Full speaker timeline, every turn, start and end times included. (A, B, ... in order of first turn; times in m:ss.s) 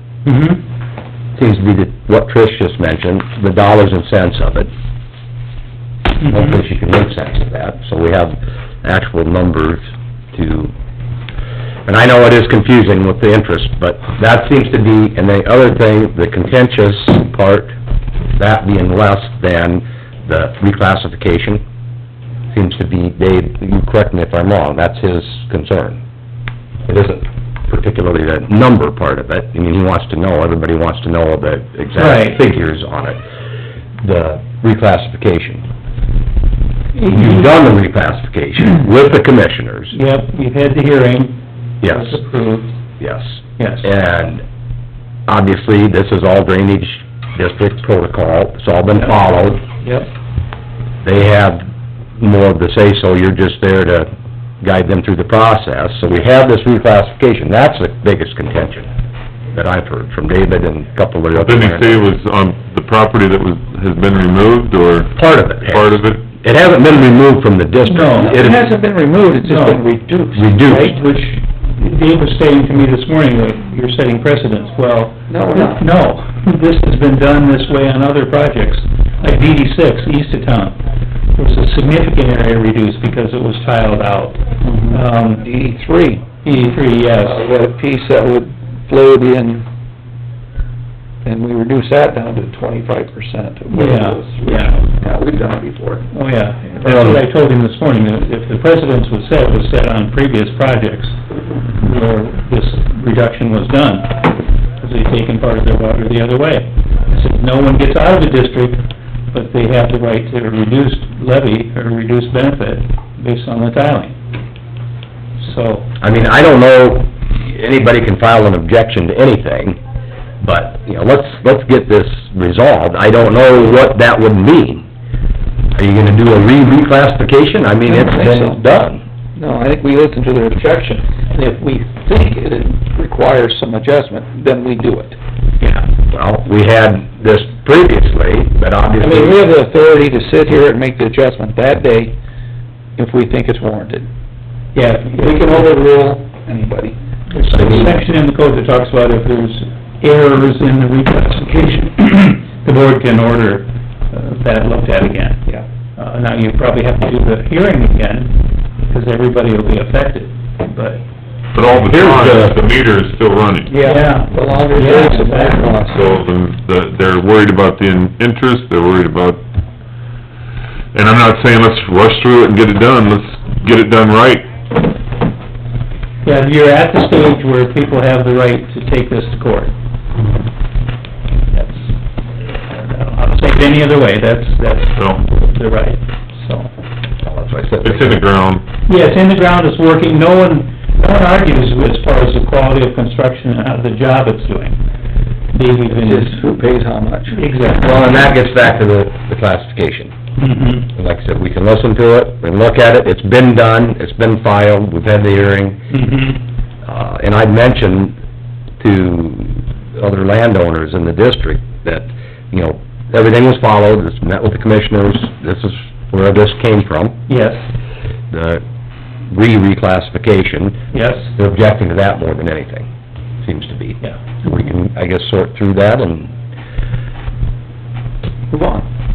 0:00.2-0:00.6 A
0:01.4-0:04.7 B
0:06.2-0:10.7 B
0:06.2-0:06.5 A
0:11.9-0:17.7 B
0:18.4-0:21.6 B
0:22.5-0:26.0 B
0:26.9-0:33.2 B
0:32.0-0:32.4 A
0:34.0-0:35.6 B
0:37.0-0:37.5 A
0:37.0-0:40.0 B
0:39.9-0:42.7 A
0:41.8-0:42.2 B
0:43.0-0:44.4 B
0:43.6-0:43.9 A
0:45.3-0:49.6 B
0:51.0-0:51.7 B
0:52.2-0:54.1 B
0:54.6-0:58.9 B
0:59.5-1:02.0 B
1:01.4-1:06.2 C
1:05.2-1:08.6 B
1:07.8-1:08.4 A
1:08.2-1:11.2 D
1:09.4-1:09.8 A
1:10.3-1:11.0 B
1:10.7-1:20.8 A
1:15.3-1:15.8 D
1:21.4-1:25.4 A
1:24.6-1:26.3 D
1:26.4-1:27.4 A
1:27.2-1:29.7 D
1:31.2-1:36.1 D
1:33.7-1:34.8 A
1:36.1-1:41.2 A
1:36.8-1:37.2 B
1:41.7-1:54.2 A
1:55.4-1:55.9 A
1:56.0-1:59.8 B
2:00.4-2:04.9 B
2:05.7-2:09.0 B
2:07.9-2:08.8 D
2:09.4-2:15.2 D
2:15.6-2:15.9 A
2:16.1-2:19.4 B
2:19.0-2:22.2 D
2:23.0-2:24.1 D
2:24.8-2:25.8 A
2:25.1-2:27.0 D
2:27.3-2:41.0 A
2:27.4-2:28.0 B
2:41.5-2:43.8 C
2:41.8-2:42.6 B
2:43.7-2:46.2 D
2:43.8-2:45.7 A
2:45.9-2:49.4 C
2:50.9-2:54.5 C
2:56.2-2:59.7 A
3:01.5-3:01.9 A
3:02.6-3:06.7 A
3:07.2-3:08.2 B
3:07.8-3:08.6 C
3:08.9-3:14.8 A
3:15.5-3:16.5 A
3:15.9-3:17.4 D
3:17.3-3:18.2 A
3:17.7-3:20.1 B
3:20.4-3:20.9 A
3:20.9-3:25.8 B
3:25.9-3:26.4 A
3:26.8-3:28.2 B
3:28.8-3:37.2 B
3:37.3-3:37.6 A
3:38.3-3:38.6 B
3:39.3-3:40.8 B
3:40.9-3:41.3 A
3:41.4-3:42.9 B
3:43.4-3:46.3 B
3:48.5-3:48.9 D